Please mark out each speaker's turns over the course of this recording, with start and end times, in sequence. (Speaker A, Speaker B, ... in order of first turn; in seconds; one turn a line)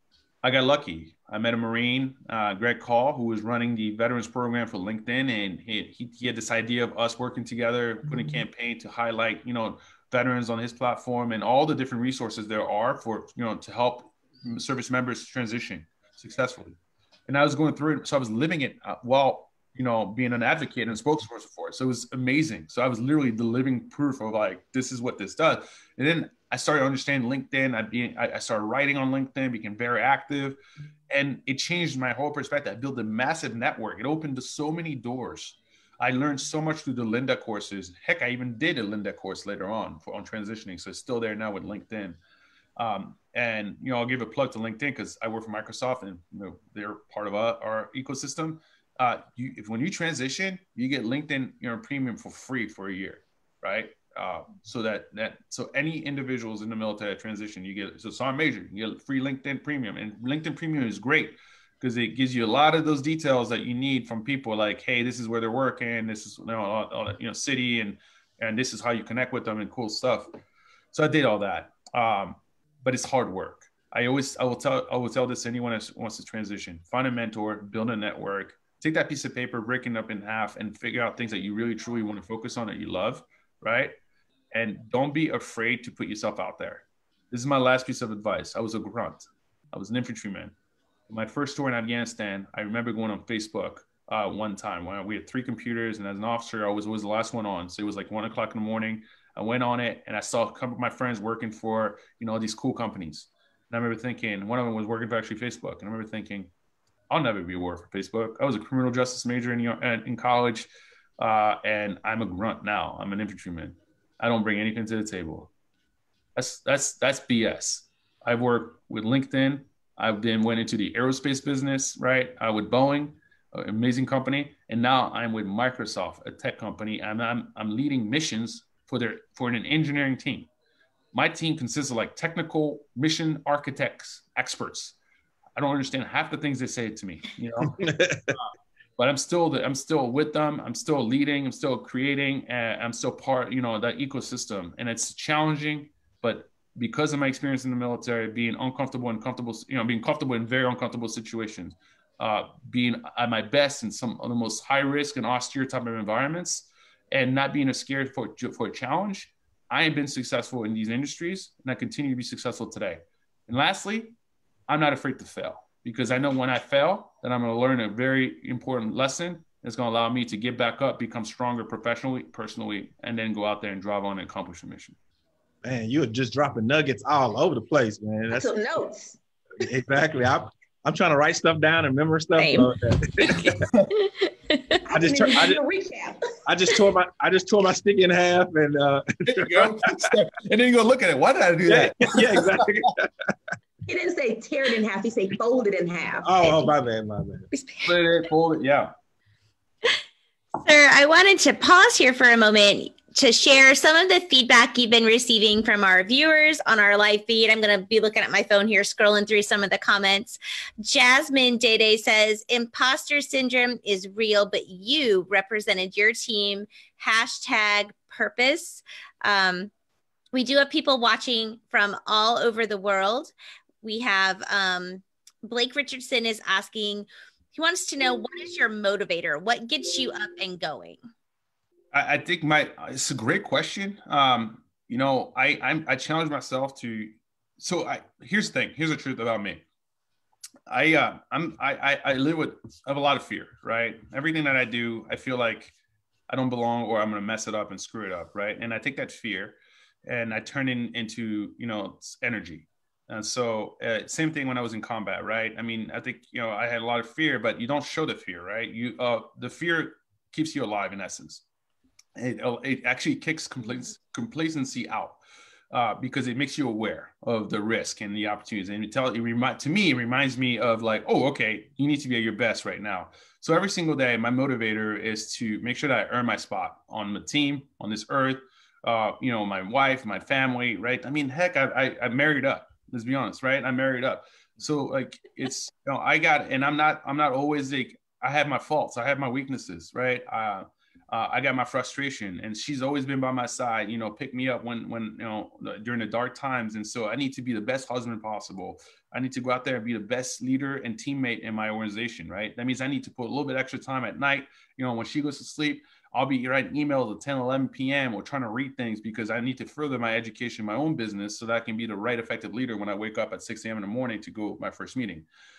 Speaker A: 0.4-30.6
Speaker A: 31.1-42.2
Speaker A: 42.8-70.3
Speaker A: 70.9-83.9
Speaker A: 84.5-90.5
Speaker A: 91.1-106.5
Speaker A: 107.1-115.5
Speaker A: 116.4-130.5
Speaker A: 131.1-135.0
Speaker A: 135.6-164.2
Speaker B: 137.6-138.4
Speaker A: 164.7-175.0
Speaker B: 175.6-178.5
Speaker C: 178.3-179.2
Speaker B: 179.6-183.5
Speaker D: 182.4-182.7
Speaker D: 183.2-184.8
Speaker C: 184.8-186.2
Speaker B: 184.9-185.6
Speaker B: 186.4-189.8
Speaker A: 189.2-192.6
Speaker B: 191.7-193.1
Speaker C: 193.9-196.5
Speaker B: 196.2-197.5
Speaker D: 197.5-197.9
Speaker A: 197.8-198.9
Speaker D: 200.6-219.7
Speaker D: 220.3-231.0
Speaker A: 231.9-239.6
Speaker A: 240.7-245.7
Speaker A: 246.3-261.4
Speaker A: 262.1-265.2
Speaker A: 265.7-315.2